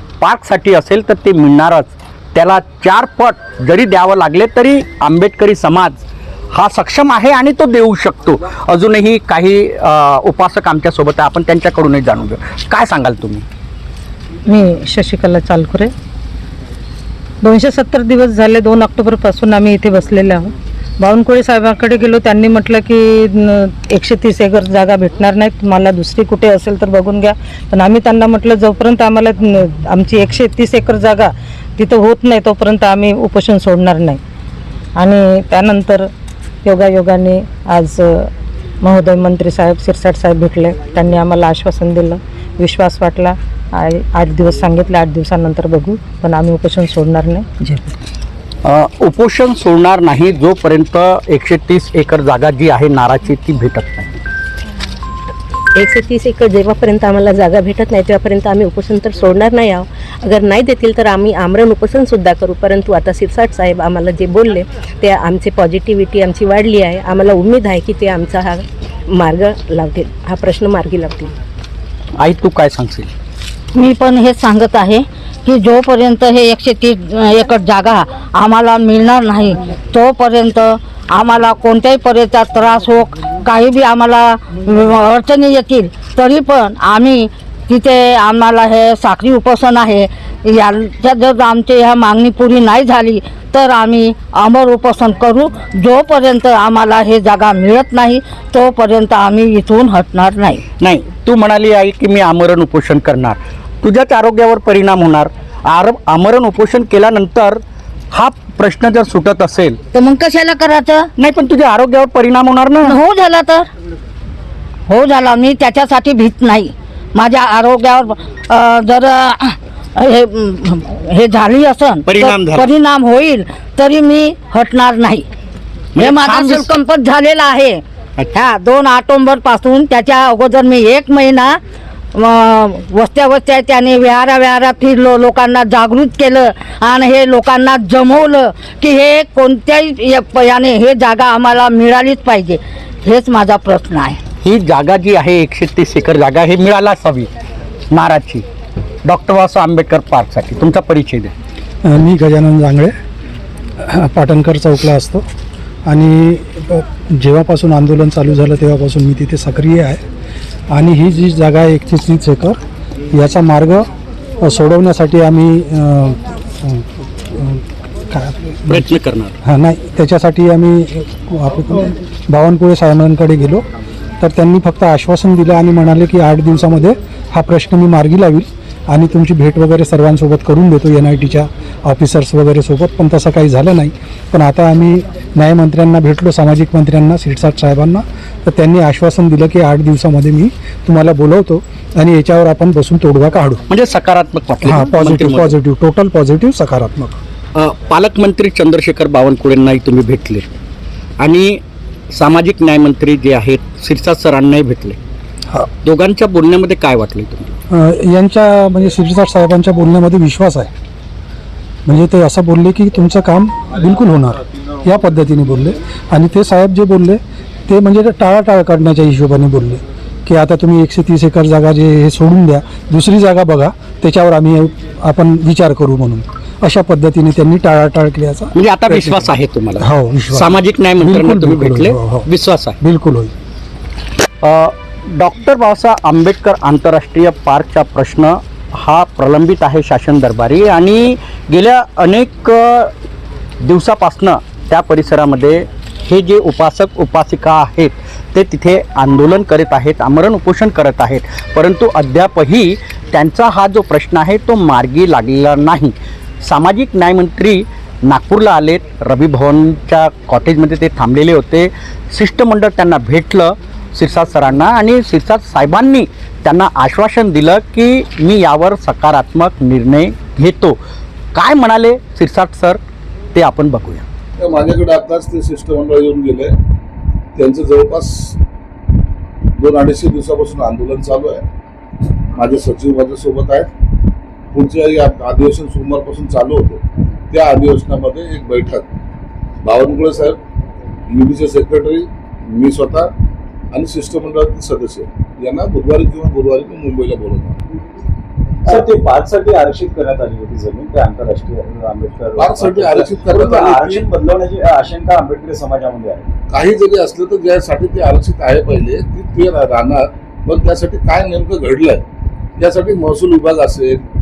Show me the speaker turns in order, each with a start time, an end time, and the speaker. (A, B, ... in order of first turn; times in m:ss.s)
0:00.2-0:13.4 A
0:14.5-0:15.9 B
0:17.4-0:34.2 B
0:35.0-0:36.1 B
0:36.6-0:38.3 B
0:38.8-0:47.9 B
0:48.6-0:54.2 A
0:55.7-1:11.3 C
1:12.2-1:13.1 A
1:13.7-1:40.6 D
1:40.8-1:47.6 A
1:48.1-1:49.8 A
1:49.9-1:51.1 D
1:51.2-1:53.0 A
1:52.8-1:53.7 D
1:54.9-2:05.3 D
2:02.0-2:02.7 A
2:05.9-2:06.7 A
2:06.0-2:11.6 D
2:12.1-2:24.2 D
2:24.4-2:27.3 A
2:27.9-2:28.4 A
2:29.0-2:31.3 A
2:31.8-2:32.9 E
2:33.8-2:35.2 E
2:35.8-2:40.0 E
2:40.7-2:42.6 E
2:43.1-2:43.9 E
2:44.4-2:48.9 E
2:48.7-2:49.3 A
2:49.4-2:53.6 E
2:54.2-3:13.6 E
3:13.7-3:15.5 A
3:14.6-3:17.2 E
3:17.5-3:20.6 A
3:21.2-3:21.6 A
3:22.1-3:25.0 A
3:25.8-3:27.5 A
3:27.7-3:30.7 E
3:31.8-3:52.3 E
3:48.5-3:52.8 A
3:52.8-3:53.3 E
3:54.4-4:02.9 A
4:03.6-4:30.8 A
4:31.3-4:32.8 A
4:33.3-4:34.0 A
4:34.4-4:36.5 F
4:37.4-4:38.4 F
4:39.6-4:41.4 F
4:42.4-4:43.7 F
4:44.5-4:48.9 F
4:49.6-4:50.4 F
4:51.1-4:53.1 F
4:53.7-4:57.5 F
4:58.6-5:06.3 G
5:02.3-5:04.1 F
5:06.5-5:12.0 F
5:12.6-5:14.0 F